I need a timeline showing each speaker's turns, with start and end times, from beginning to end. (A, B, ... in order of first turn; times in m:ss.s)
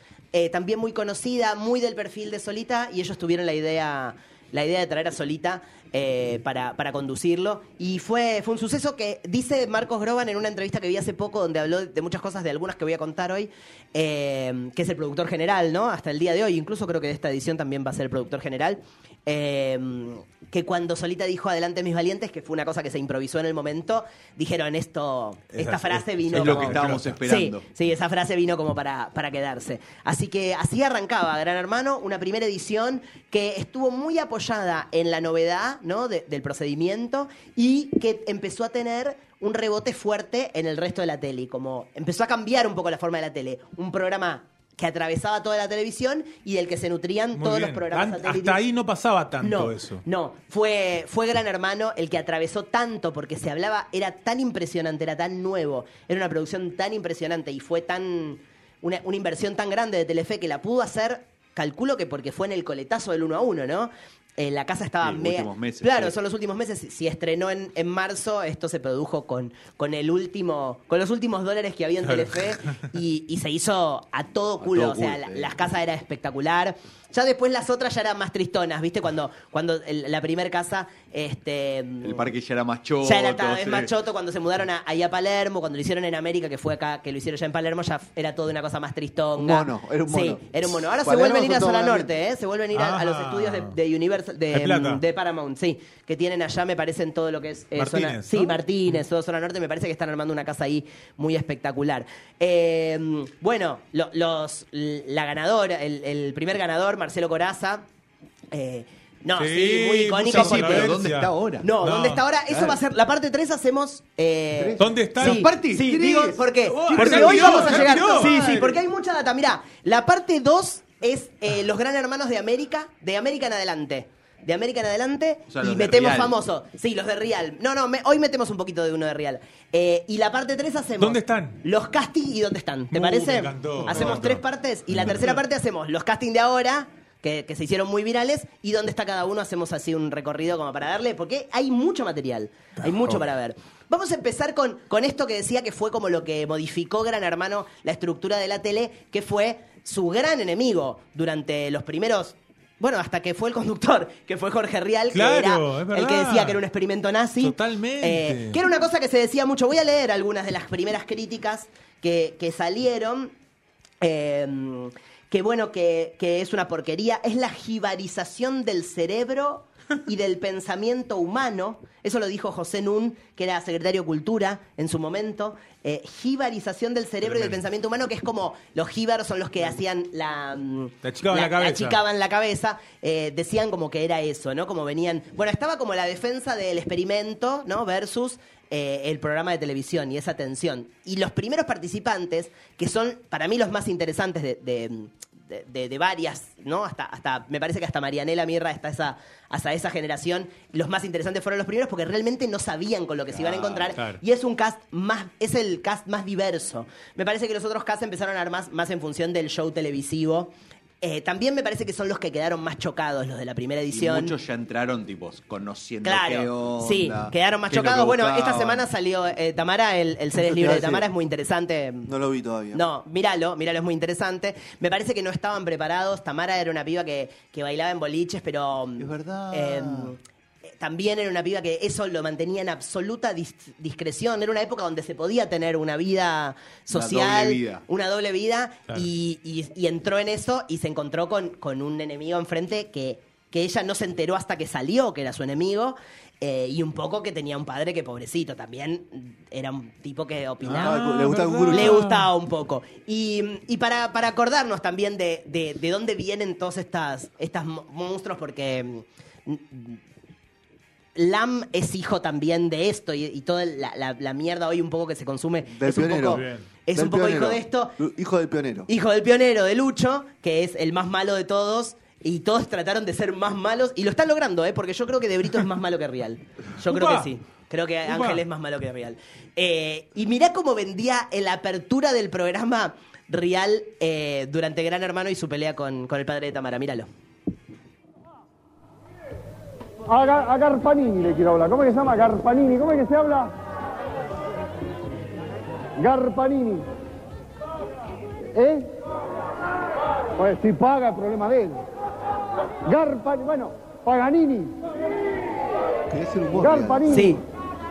0:00.3-0:48.6 A
0:25.5-0:27.2 B
0:26.3-0:27.7 C
0:47.4-0:50.0 B
0:49.4-1:22.3 A
1:05.0-1:06.1 C
1:12.0-1:12.3 B
1:14.6-1:15.6 C
1:22.0-1:23.9 C
1:23.0-1:47.8 A
1:29.4-1:32.1 D
1:32.7-1:33.8 B
1:34.5-1:35.0 B
1:37.8-1:38.6 B
1:48.5-1:51.0 A
1:49.4-1:52.2 B
1:50.3-1:51.7 C
1:51.6-2:43.3 A
1:52.5-1:52.8 C
1:54.5-1:58.6 C
1:54.8-1:55.5 B
1:56.7-1:58.8 B
2:05.5-2:06.4 C
2:11.0-2:11.6 B
2:12.9-2:15.4 B
2:35.1-2:36.6 B
2:37.4-2:38.6 B
2:44.0-3:34.3 A
2:57.2-2:57.6 B
3:01.0-3:02.0 B
3:23.3-3:24.0 C
3:33.9-3:38.9 C
3:36.0-3:42.1 A
3:40.3-3:41.1 D
3:42.0-3:42.8 D
3:42.7-4:11.0 A
3:49.0-3:50.1 C
3:56.9-3:57.8 C
4:10.6-4:12.3 B
4:10.7-4:12.0 D
4:11.7-4:20.0 A
4:21.1-4:28.0 A
4:25.7-4:28.9 D
4:26.2-4:26.7 B
4:28.9-4:47.1 A
4:36.8-4:37.3 B
4:38.0-4:38.4 B
4:50.1-4:53.5 E
4:56.0-4:56.8 E
4:58.5-4:58.9 E
5:00.4-5:01.8 E
5:02.8-5:04.8 E
5:06.1-5:07.1 D
5:06.5-5:07.4 E
5:07.1-5:07.4 A